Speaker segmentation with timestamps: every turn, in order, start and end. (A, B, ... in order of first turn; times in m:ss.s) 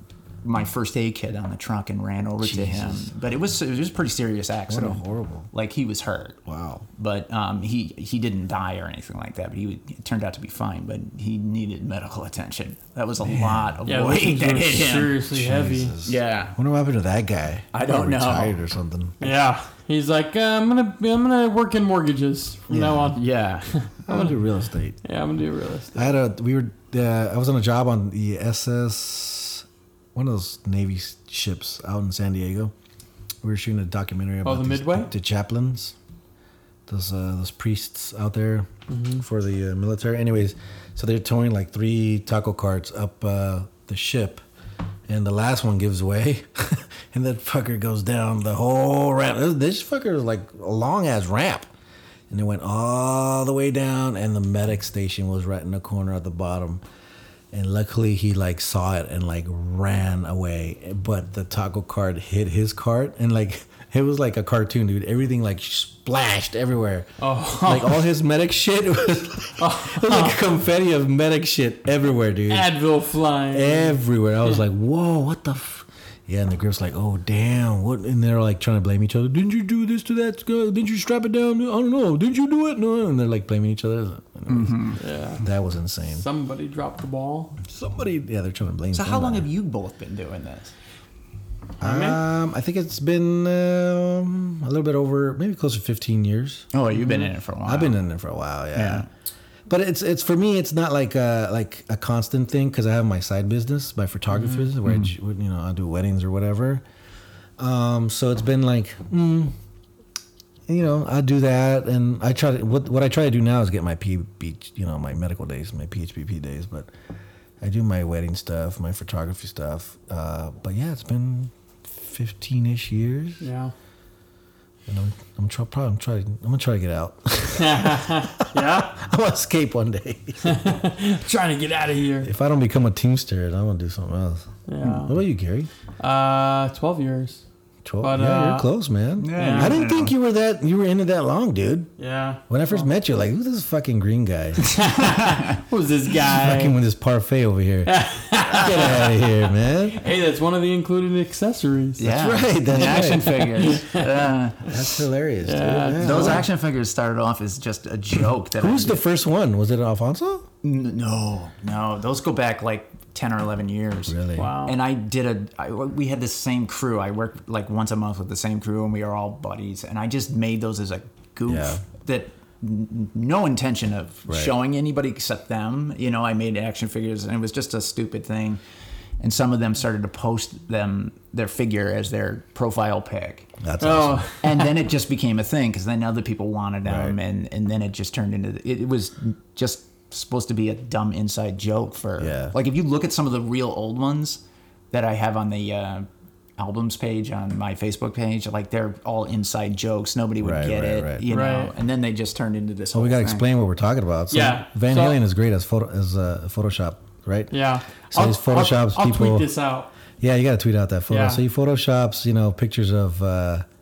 0:00.4-0:06.4 A
0:02.4-0:03.1 B
0:04.7-0:05.5 B
0:06.4-0:06.9 B
0:07.0-0:15.2 A
0:13.9-0:15.9 C
0:15.2-0:19.4 B
0:16.0-0:16.6 A
0:17.7-0:18.6 A
0:19.2-0:24.4 C
0:22.7-0:23.1 B
0:23.1-0:23.7 A
0:24.1-0:25.0 B
0:25.0-0:26.1 C
0:25.9-0:32.7 B
0:33.4-0:35.9 B
0:34.4-0:35.1 C
0:36.9-0:44.4 B
0:38.9-0:39.2 C
0:45.1-0:51.7 B
0:52.3-0:56.8 B
0:57.5-1:07.1 B
1:07.2-1:08.0 C
1:07.6-1:12.7 B
1:09.6-1:10.4 C
1:12.5-1:13.9 C
1:13.5-1:26.2 B
1:24.5-1:25.0 A
1:25.0-1:25.4 C
1:26.1-1:27.6 C
1:27.6-1:29.4 B
1:28.9-1:30.7 A
1:31.8-1:32.2 C
1:31.8-1:36.7 B
1:36.7-1:38.0 A
1:37.6-1:39.0 B
1:38.7-1:39.1 A
1:39.7-1:46.8 B
1:44.3-1:44.6 C
1:47.6-1:49.5 B
1:50.7-1:56.9 B
1:57.6-2:03.4 B
2:03.4-2:03.7 C
2:04.9-2:10.7 B
2:07.6-2:08.9 C
2:10.4-2:12.3 C
2:12.2-2:15.7 B
2:14.7-2:15.1 C
2:16.0-2:17.4 C
2:17.8-2:21.9 B
2:18.0-2:18.7 C
2:19.2-2:20.1 A
2:19.3-2:19.8 C
2:22.0-2:22.9 C
2:22.5-2:24.7 B
2:24.7-2:25.6 A
2:24.7-2:26.7 C
2:26.3-2:30.0 B
2:27.9-2:32.1 C
2:32.0-2:34.9 A
2:32.1-2:33.5 B
2:32.7-2:34.1 C
2:34.6-2:36.5 B
2:35.4-2:36.4 C
2:36.0-2:39.0 A
2:38.6-2:40.4 B
2:40.6-2:58.6 A
2:44.1-2:44.5 B
2:44.4-2:44.7 C
2:51.5-2:51.8 B
2:54.3-2:54.5 B
2:59.2-3:03.5 A
3:03.6-3:04.2 B
3:03.8-3:04.8 C
3:04.4-3:23.5 A
3:06.9-3:07.2 B
3:12.2-3:12.5 B
3:20.4-3:21.2 B
3:21.3-3:21.7 C
3:22.9-3:27.6 B
3:24.3-3:25.2 C
3:27.5-3:29.9 C
3:28.1-3:29.5 B
3:30.2-3:33.6 B
3:31.1-3:31.4 C